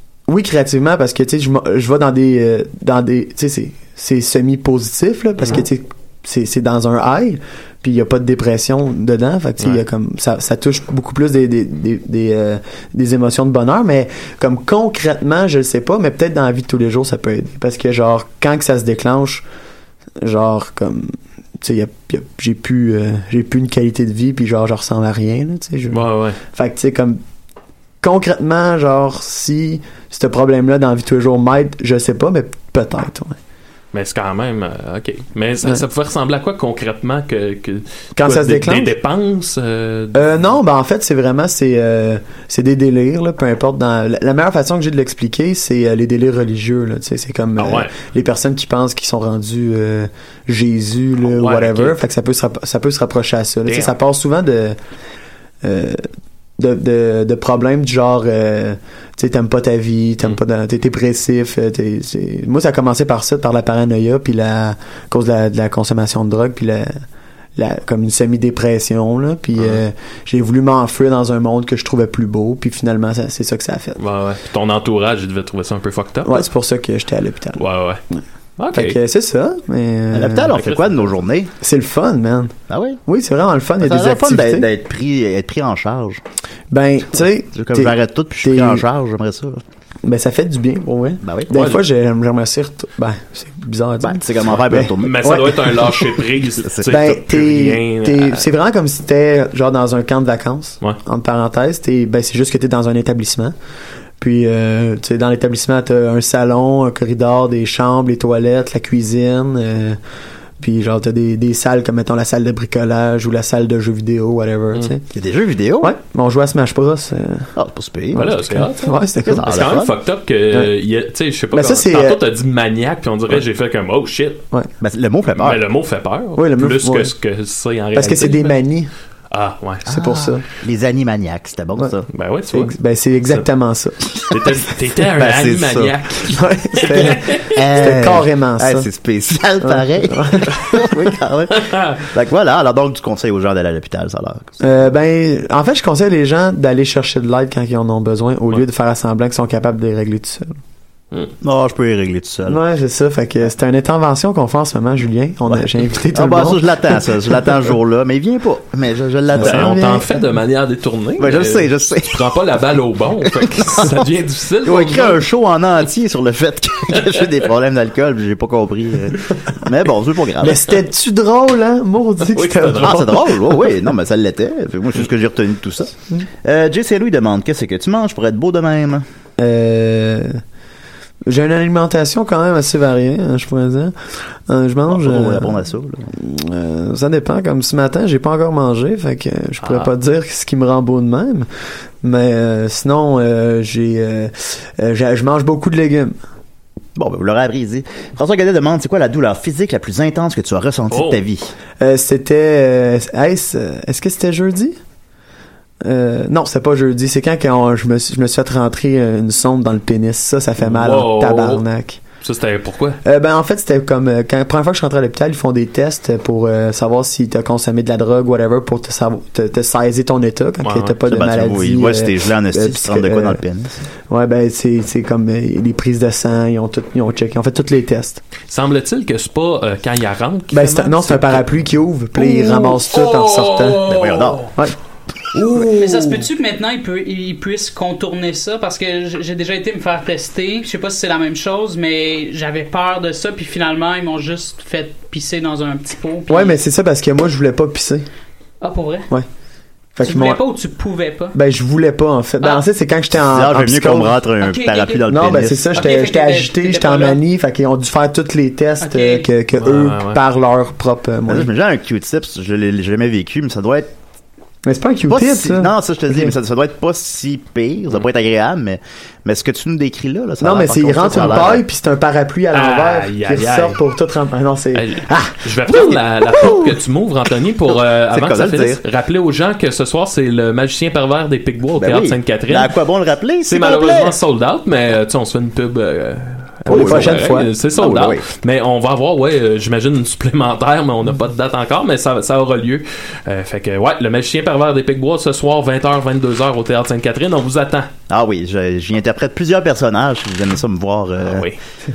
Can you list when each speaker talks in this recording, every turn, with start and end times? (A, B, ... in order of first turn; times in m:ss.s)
0:00.3-0:19.4 A
0:20.2-0:27.2 A
0:25.9-0:26.4 B
0:28.0-0:33.4 A
0:33.9-0:40.3 B
0:38.2-0:38.9 A
0:40.1-0:54.8 A
0:47.6-0:47.9 B
0:51.3-0:52.0 B
0:53.6-0:53.9 B
0:55.6-0:56.0 A
0:56.6-1:07.0 A
1:07.6-1:14.0 A
1:14.0-1:16.4 B
1:16.2-1:18.2 A
1:17.6-1:18.0 B
1:18.6-1:19.0 B
1:18.7-1:20.5 A
1:20.1-1:21.5 C
1:20.5-1:21.1 B
1:21.6-1:22.5 A
1:22.7-1:23.0 C
1:23.0-1:24.7 A
1:23.8-1:26.2 C
1:26.7-1:28.8 A
1:27.5-1:29.6 C
1:30.0-1:36.0 A
1:31.2-1:31.7 C
1:34.0-1:35.4 C
1:35.0-1:38.5 B
1:36.9-1:43.5 A
1:44.2-1:50.0 A
1:50.6-1:55.0 A
1:55.1-1:55.9 C
1:55.8-1:57.5 A
1:57.6-1:58.3 C
1:58.1-1:59.6 A
1:58.1-2:04.4 B
1:59.3-2:00.0 C
2:01.5-2:02.2 A
2:04.8-2:05.6 C
2:05.4-2:08.5 B
2:06.4-2:07.1 A
2:07.9-2:08.9 A
2:09.3-2:10.0 B
2:09.9-2:10.4 A
2:10.0-2:12.1 C
2:12.1-2:12.7 B
2:12.5-2:14.0 A
2:14.3-2:17.5 B
2:15.2-2:16.0 C
2:16.2-2:18.9 A
2:17.0-2:24.6 C
2:19.6-2:21.0 A
2:21.6-2:22.0 B
2:24.6-2:30.6 A
2:31.4-2:32.6 C
2:32.4-2:36.9 A
2:35.5-2:39.7 C
2:39.3-2:40.2 A
2:39.4-2:45.2 B
2:41.2-2:42.2 C
2:43.5-2:43.9 C
2:44.6-2:50.6 C
2:50.4-2:53.2 A
2:52.3-2:53.2 B
2:52.8-2:59.0 C
2:59.4-3:00.4 A
3:01.3-3:04.0 A
3:04.5-3:05.6 A
3:04.9-3:06.1 C
3:06.1-3:11.5 A
3:09.6-3:09.9 B
3:12.0-3:16.1 A
3:17.0-3:21.5 C
3:20.9-3:21.2 B
3:21.8-3:24.8 A
3:25.8-3:32.0 A
3:30.6-3:31.6 B
3:32.2-3:33.0 B
3:33.0-3:43.4 A
3:40.6-3:41.0 B
3:41.1-3:43.8 C
3:44.1-3:48.2 A
3:48.5-3:51.5 B
3:50.5-3:53.9 A
3:52.2-3:54.5 B
3:53.8-3:54.5 C
3:54.5-3:54.8 A
3:55.4-3:56.0 A
3:55.6-4:06.6 D
4:06.3-4:08.1 A
4:08.6-4:09.1 D
4:10.0-4:10.4 A
4:10.0-4:11.4 D
4:11.3-4:14.2 A
4:13.2-4:15.9 C
4:14.4-4:15.0 D
4:15.1-4:21.5 A
4:15.8-4:17.2 D
4:18.8-4:19.3 D
4:19.5-4:20.2 B
4:21.3-4:23.9 C
4:24.6-4:26.3 A
4:25.1-4:31.6 C
4:30.4-4:35.4 A
4:32.5-4:33.8 B
4:34.7-4:42.7 B
4:37.7-4:38.8 C
4:41.8-4:44.2 C
4:43.5-4:57.9 B
4:46.6-4:47.5 A
4:46.7-4:47.2 C
4:47.7-4:48.2 C
4:58.1-5:01.5 C
5:01.2-5:01.6 B